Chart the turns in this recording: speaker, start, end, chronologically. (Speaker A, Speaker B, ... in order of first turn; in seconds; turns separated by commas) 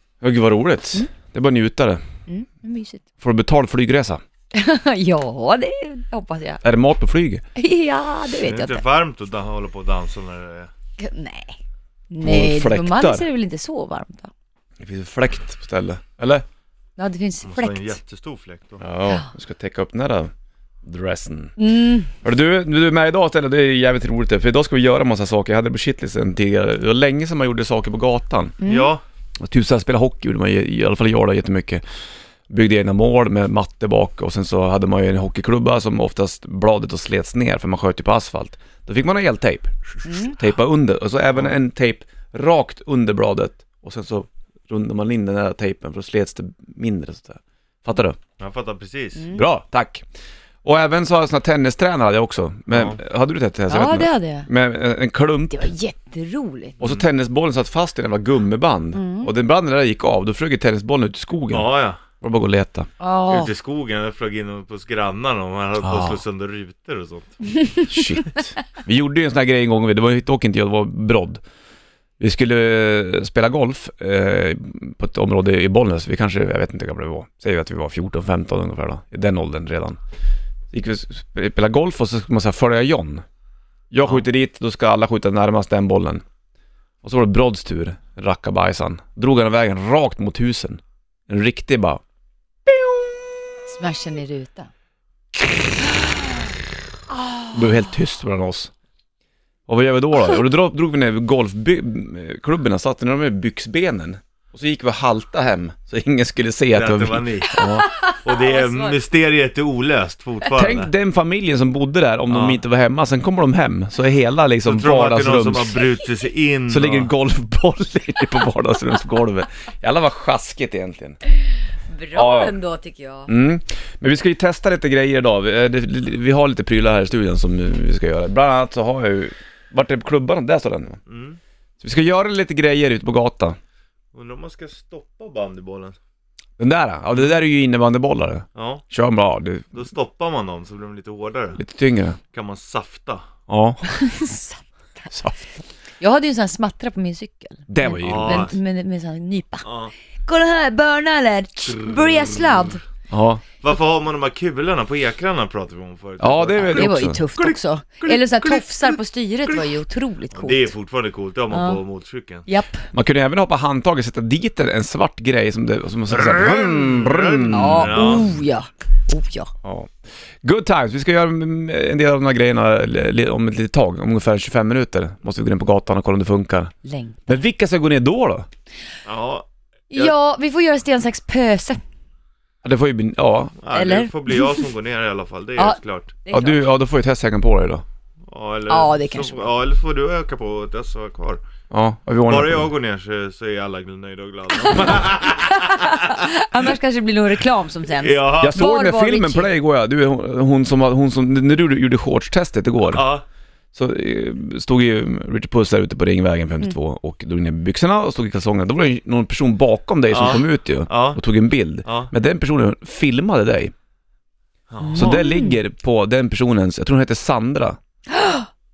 Speaker A: 0.2-2.0, Speaker B: 2.3-3.0, Speaker A: 3.2-4.2, Speaker B: 4.5-6.6, Speaker A: 6.6-7.4, Speaker B: 7.6-8.8, Speaker C: 8.4-10.7, Speaker B: 11.0-11.6, Speaker B: 12.1-14.3, Speaker A: 12.2-13.3, Speaker A: 14.8-16.4, Speaker B: 17.0-18.0, Speaker C: 17.4-18.8, Speaker A: 18.8-20.3, Speaker A: 20.8-21.5, Speaker B: 21.6-22.1, Speaker A: 22.2-28.6, Speaker B: 28.6-28.9, Speaker C: 28.6-29.0, Speaker A: 29.4-31.8, Speaker A: 32.5-48.2, Speaker B: 40.0-40.4, Speaker C: 48.4-49.3, Speaker B: 49.2-49.5, Speaker A: 49.3-50.0, Speaker A: 50.6-55.7, Speaker C: 52.7-53.0, Speaker B: 53.7-54.5, Speaker B: 55.5-56.8, Speaker A: 56.8-61.7, Speaker B: 58.9-59.3, Speaker C: 61.5-62.0, Speaker A: 62.2-62.9, Speaker B: 63.0-63.5, Speaker C: 63.3-67.3, Speaker A: 65.8-66.2, Speaker A: 67.9-71.4, Speaker A: 72.2-80.0, Speaker A: 80.7-83.2, Speaker A: 83.9-86.2, Speaker A: 87.0-92.0, Speaker B: 93.7-94.7, Speaker A: 97.5-98.7, Speaker A: 99.7-107.9, Speaker C: 106.7-107.6, Speaker B: 107.5-109.0, Speaker C: 108.2-110.9, Speaker A: 110.5-115.9, Speaker C: 112.3-112.6, Speaker C: 114.7-117.1, Speaker A: 116.7-121.2, Speaker B: 121.9-123.3, Speaker A: 122.1-122.6, Speaker A: 123.3-131.0, Speaker C: 131.1-131.4, Speaker A: 131.8-133.6, Speaker C: 134.1-136.0, Speaker A: 136.6-139.7, Speaker C: 138.6-138.8, Speaker C: 139.7-141.6, Speaker A: 141.6-142.2, Speaker C: 142.3-143.3, Speaker A: 143.5-143.8, Speaker B: 143.9-145.3, Speaker B: 146.0-149.7, Speaker A: 147.7-148.5, Speaker C: 148.0-148.5, Speaker C: 149.7-149.9, Speaker B: 150.2-152.8, Speaker C: 151.7-152.6, Speaker A: 153.1-153.4, Speaker C: 153.6-157.6, Speaker A: 156.2-157.2, Speaker B: 156.7-160.7, Speaker C: 158.1-158.7, Speaker C: 160.3-162.4, Speaker B: 161.5-161.8, Speaker B: 162.5-162.9, Speaker A: 162.9-168.2, Speaker C: 166.1-168.4, Speaker B: 167.5-169.5, Speaker A: 169.6-169.9, Speaker A: 170.4-176.7, Speaker B: 176.8-177.4, Speaker A: 177.3-178.5, Speaker C: 179.1-180.1, Speaker B: 179.9-181.8, Speaker A: 182.6-183.6, Speaker C: 183.6-186.1, Speaker B: 183.7-184.6, Speaker B: 185.6-186.7, Speaker A: 186.3-187.8, Speaker C: 188.3-191.4, Speaker B: 188.7-189.5, Speaker A: 191.7-192.7, Speaker C: 192.3-196.2, Speaker B: 194.6-199.5, Speaker C: 198.0-198.7, Speaker A: 198.4-203.1, Speaker C: 202.9-203.2, Speaker A: 203.8-213.7, Speaker C: 210.1-211.2, Speaker C: 211.8-212.1, Speaker C: 214.7-215.2, Speaker B: 214.8-215.6, Speaker A: 214.9-217.8, Speaker B: 218.1-218.5